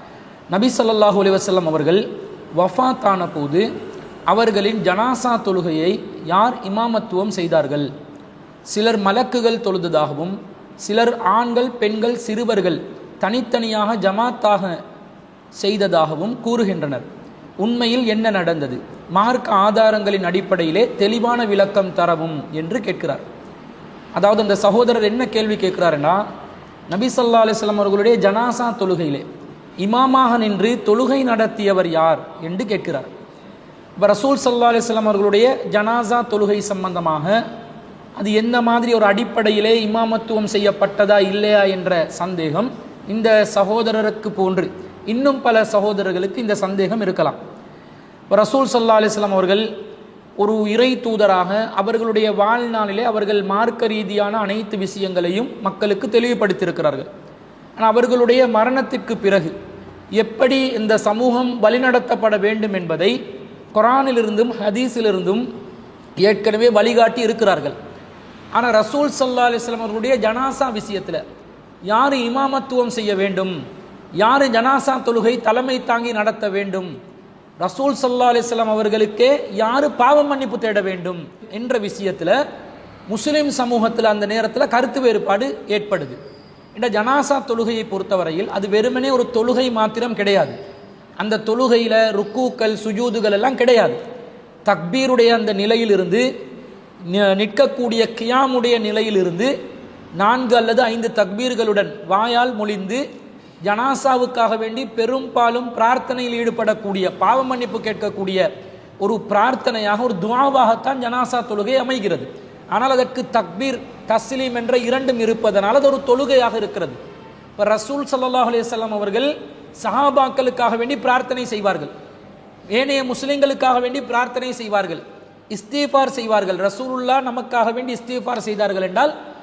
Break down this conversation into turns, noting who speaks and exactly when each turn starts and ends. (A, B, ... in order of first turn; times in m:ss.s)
0:00.5-0:03.7 A
0:04.3-0:07.9 A
0:08.7-0:14.8 A
0:15.6-0:17.0 A
0:17.6-0:23.2 A
0:24.1-0:26.2 A
0:26.9-0:29.2 A
0:29.8-0:33.1 A
0:34.0-0:37.4 A
0:38.2-0:47.4 A
0:48.3-0:49.7 A
0:50.4-0:57.1 A
0:57.8-0:59.5 A
1:00.1-1:03.2 A
1:03.7-1:05.5 A
1:06.2-1:07.8 A
1:08.5-1:11.2 A
1:11.9-1:13.6 A
1:14.2-1:16.9 A
1:17.6-1:22.4 A
1:23.1-1:26.2 A
1:26.7-1:30.6 A
1:31.2-1:34.0 A
1:34.6-1:36.2 A
1:37.1-1:39.5 A
1:40.2-1:43.0 A
1:43.6-1:48.4 A
1:49.0-1:57.0 A
1:57.6-2:01.9 A
2:02.7-2:09.1 A